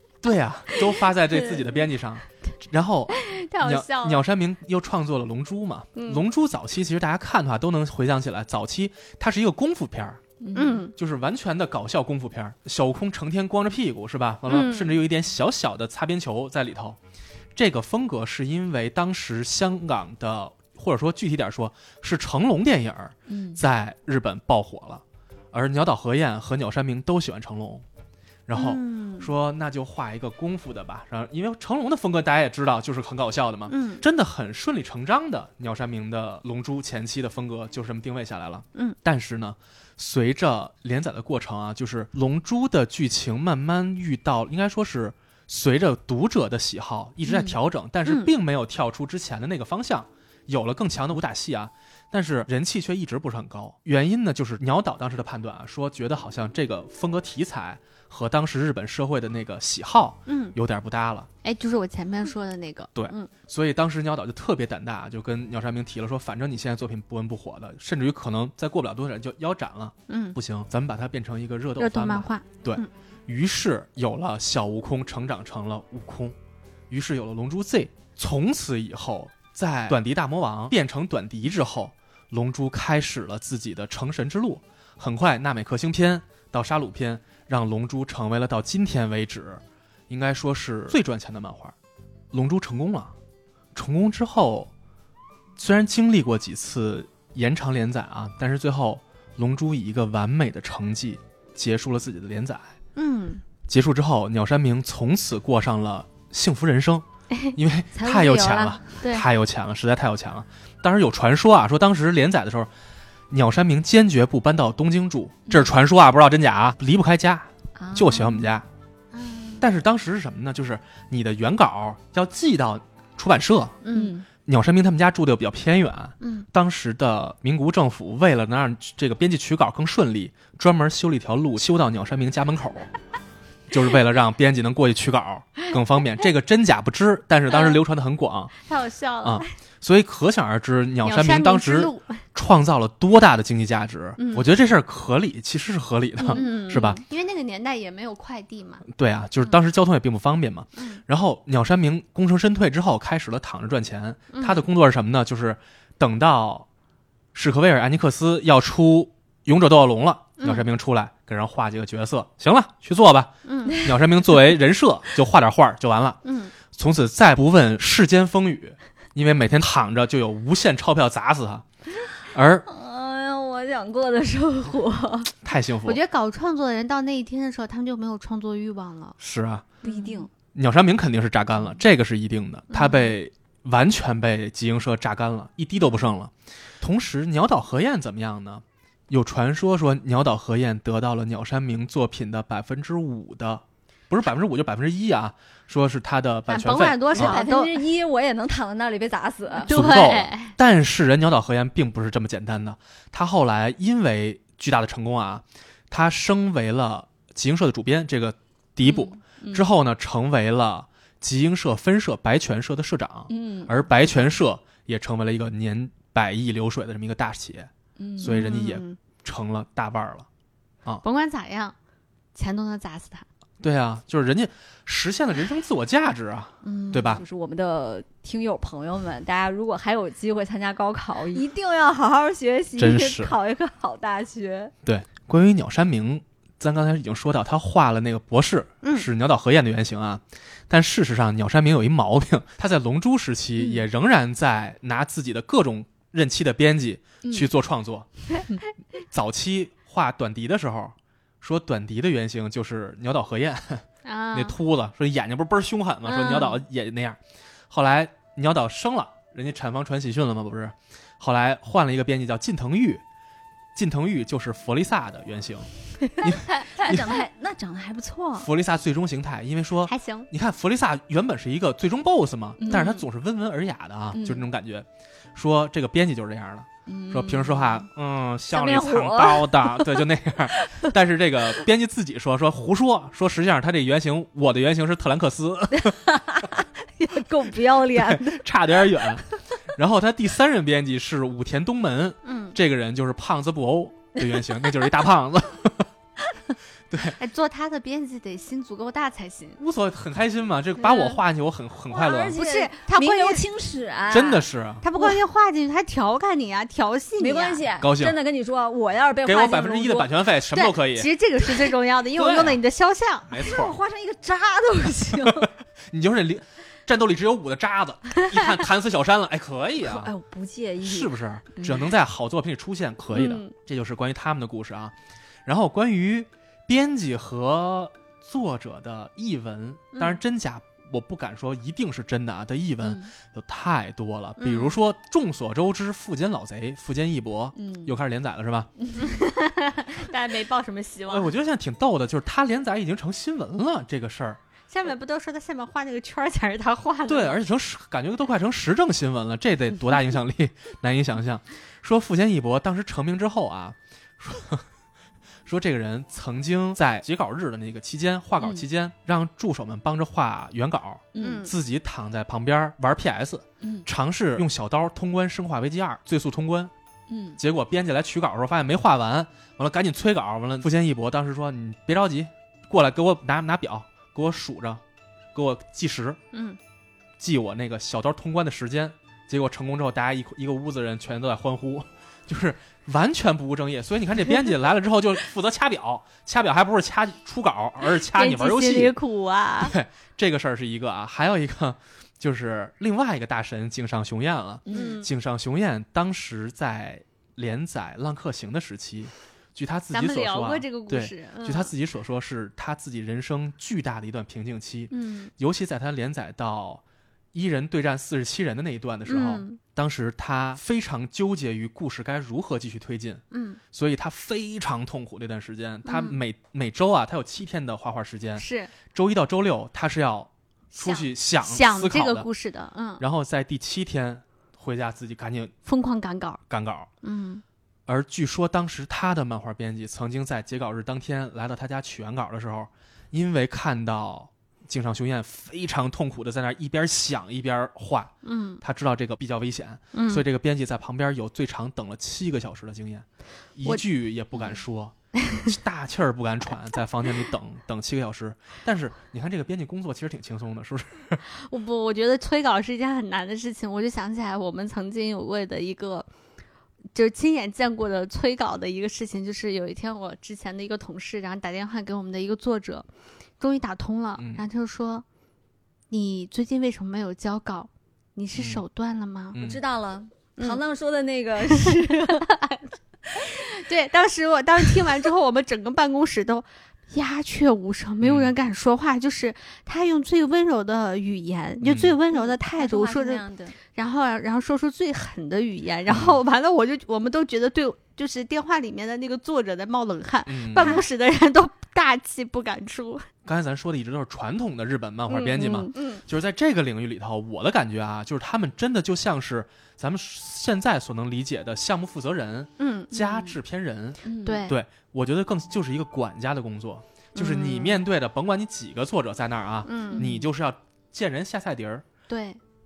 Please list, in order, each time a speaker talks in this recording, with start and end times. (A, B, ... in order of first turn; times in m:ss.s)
0:00.2-0:10.2 A
0:00.7-0:01.8 B
0:03.1-0:04.2 B
0:06.0-0:06.2 B
0:10.4-0:10.8 C
0:10.6-0:10.9 B
0:10.9-0:17.0 A
0:14.5-0:15.0 B
0:17.6-0:27.8 A
0:23.3-0:23.6 C
0:28.5-1:01.3 A
0:28.5-0:29.3 B
0:33.7-0:34.0 B
0:47.3-0:47.6 C
0:48.1-0:48.3 B
1:00.3-1:00.6 B
1:01.4-1:03.3 B
1:03.0-1:16.4 A
1:10.1-1:10.4 B
1:11.8-1:12.9 B
1:16.9-1:31.8 A
1:32.3-1:33.1 A
1:33.7-1:34.7 A
1:35.6-1:42.7 A
1:43.0-1:43.4 B
1:43.7-1:52.7 A
1:47.9-1:48.8 C
1:49.0-1:49.3 B
1:53.3-1:58.6 A
1:55.5-1:55.7 C
1:57.8-1:58.5 C
1:59.1-1:59.6 B
1:59.6-2:03.8 A
2:03.8-2:04.1 B
2:03.9-2:04.3 C
2:04.4-2:12.9 A
2:06.2-2:06.5 B
2:13.7-2:18.5 A
2:17.5-2:17.8 B
2:18.6-2:19.5 B
2:19.2-2:27.0 A
2:21.0-2:22.2 B
2:24.2-2:24.5 B
2:26.2-2:28.8 B
2:28.9-2:36.7 A
2:34.3-2:34.6 B
2:37.3-2:51.6 A
2:40.4-2:40.6 B
2:43.5-2:43.9 B
2:46.2-2:46.5 B
2:52.3-2:52.6 A
2:52.6-2:55.3 C
2:55.4-2:56.0 A
2:55.8-2:59.2 B
2:59.2-2:59.7 A
2:59.8-3:00.2 B
2:59.8-3:00.3 C
3:00.5-3:17.4 A
3:02.7-3:03.1 B
3:16.5-3:17.8 B
3:17.1-3:19.7 C
3:19.6-3:20.5 B
3:19.7-3:40.3 A
3:28.8-3:29.6 C
3:33.3-3:33.8 C
3:38.0-3:38.5 C
3:38.2-3:39.0 B
3:41.0-3:41.8 B
3:42.4-3:43.2 B
3:43.6-3:47.2 A
3:46.6-3:47.2 B
3:47.0-3:54.7 C
3:52.8-3:53.4 A
3:54.8-4:08.2 A
3:58.8-3:59.1 B
4:07.2-4:07.5 C
4:09.1-4:17.2 A
4:14.0-4:14.6 B
4:16.1-4:16.6 B
4:17.7-4:23.0 A
4:23.8-4:27.2 A
4:26.6-4:28.5 C
4:28.4-4:46.0 A
4:29.9-4:30.3 B
4:32.6-4:33.0 C
4:32.7-4:33.0 B
4:34.1-4:34.4 C
4:36.9-4:37.9 C
4:38.5-4:40.0 C
4:40.6-4:40.9 C
4:45.8-4:48.4 C
4:47.9-4:55.9 A
4:52.2-4:52.6 B
4:54.2-4:54.8 C
4:56.9-4:57.2 A
4:57.2-4:59.6 B
4:59.6-5:02.4 A
5:00.9-5:01.1 B
5:01.9-5:04.4 C
5:02.4-5:03.4 B
5:04.1-5:04.8 A
5:04.8-5:07.6 B
5:07.2-5:10.1 C
5:07.8-5:08.2 A
5:09.2-5:11.1 A
5:10.5-5:13.3 B
5:12.2-5:12.6 A
5:13.3-5:13.8 A
5:13.4-5:15.5 C
5:15.3-5:20.1 A
5:19.8-5:21.9 C
5:20.8-5:38.7 A
5:23.1-5:23.5 B
5:29.9-5:30.2 B
5:32.8-5:33.1 C
5:34.4-5:34.8 B
5:37.6-5:37.9 C
5:38.8-5:39.1 C
5:39.0-5:41.3 B
5:41.1-5:44.4 A
5:44.7-5:47.4 B
5:47.1-5:54.6 A
5:55.4-6:06.7 A
6:01.1-6:01.4 C
6:01.2-6:01.5 B
6:03.6-6:03.9 C
6:07.1-6:07.4 C
6:07.4-6:14.8 A
6:15.4-6:16.2 A
6:16.3-6:16.6 B
6:17.2-6:29.0 A
6:28.0-6:29.7 B
6:29.6-7:02.3 A
6:34.7-6:35.0 C
6:34.7-6:35.1 B
6:39.9-6:41.7 B
6:44.9-6:45.3 B
6:49.1-6:49.6 B
6:53.3-6:53.6 B
6:55.8-6:56.2 B
6:58.4-6:58.7 B
7:00.7-7:03.0 B
7:03.0-7:05.5 A
7:05.6-7:06.4 B
7:06.5-7:06.9 A
7:07.0-7:07.4 B
7:07.9-7:23.0 A
7:18.2-7:18.6 B
7:19.9-7:20.2 B
7:23.6-7:31.2 A
7:31.3-7:36.1 B
7:36.9-7:42.9 B
7:43.4-7:45.0 B
7:44.2-7:44.4 A
7:45.9-7:49.4 B
7:48.4-7:48.6 A
7:49.3-7:49.6 A
7:49.4-7:52.3 C
7:51.4-7:52.6 B
7:53.1-8:13.1 B
7:58.0-7:58.3 A
8:01.6-8:01.9 A
8:02.1-8:03.6 C
8:05.9-8:06.2 A
8:10.3-8:10.8 A
8:13.2-8:31.9 A
8:15.1-8:16.0 B
8:22.6-8:23.3 B
8:24.0-8:24.5 C
8:24.2-8:24.6 B
8:27.1-8:27.8 B
8:29.6-8:30.1 B
8:29.9-8:30.3 C
8:32.1-8:32.4 B